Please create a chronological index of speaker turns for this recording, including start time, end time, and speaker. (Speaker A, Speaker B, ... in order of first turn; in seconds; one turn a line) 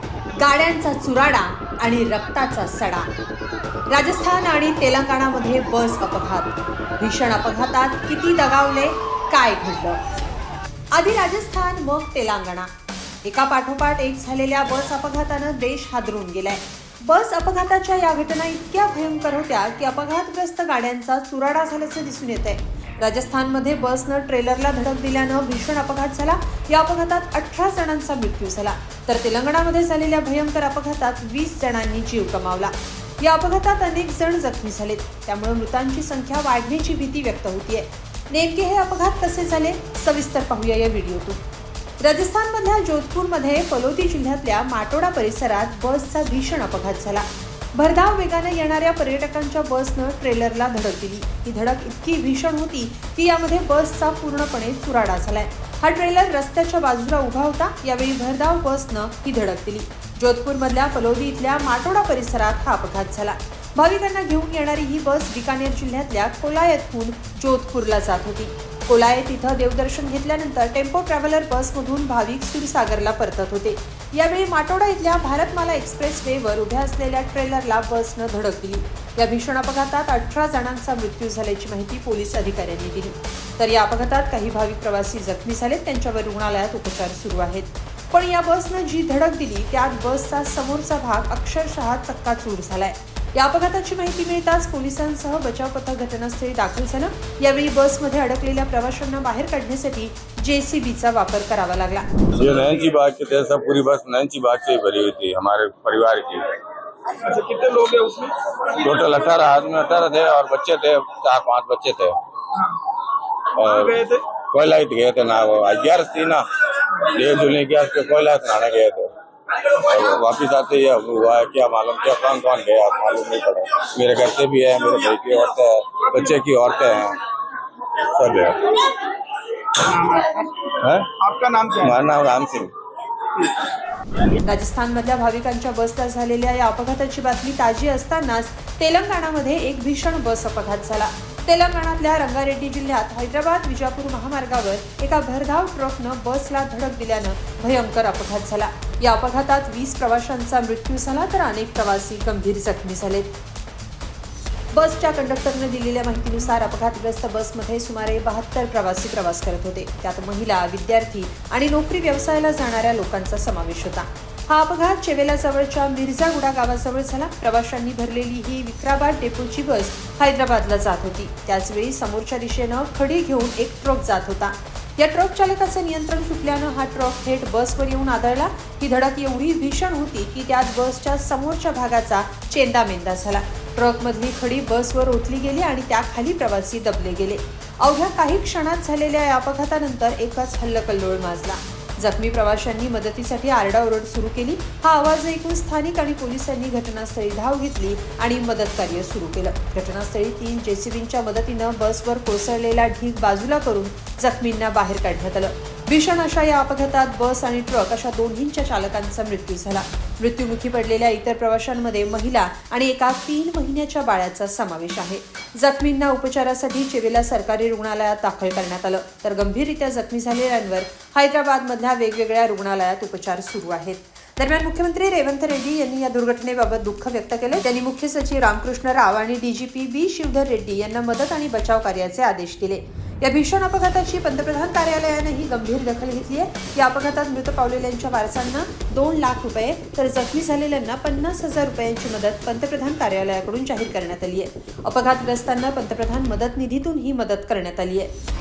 Speaker A: 0.4-3.1
Speaker A: 3.9-10.0
Speaker A: 10.9-12.7
Speaker A: 13.2-41.4
Speaker A: 42.0-102.1
Speaker B: 102.3-106.5
Speaker C: 107.2-108.4
Speaker B: 108.6-112.2
Speaker B: 113.5-127.2
Speaker C: 113.7-114.1
Speaker B: 128.0-128.8
Speaker C: 129.8-130.5
Speaker B: 130.7-131.2
Speaker C: 131.2-131.9
Speaker B: 131.7-132.7
Speaker A: 134.3-153.3
Speaker A: 154.7-248.1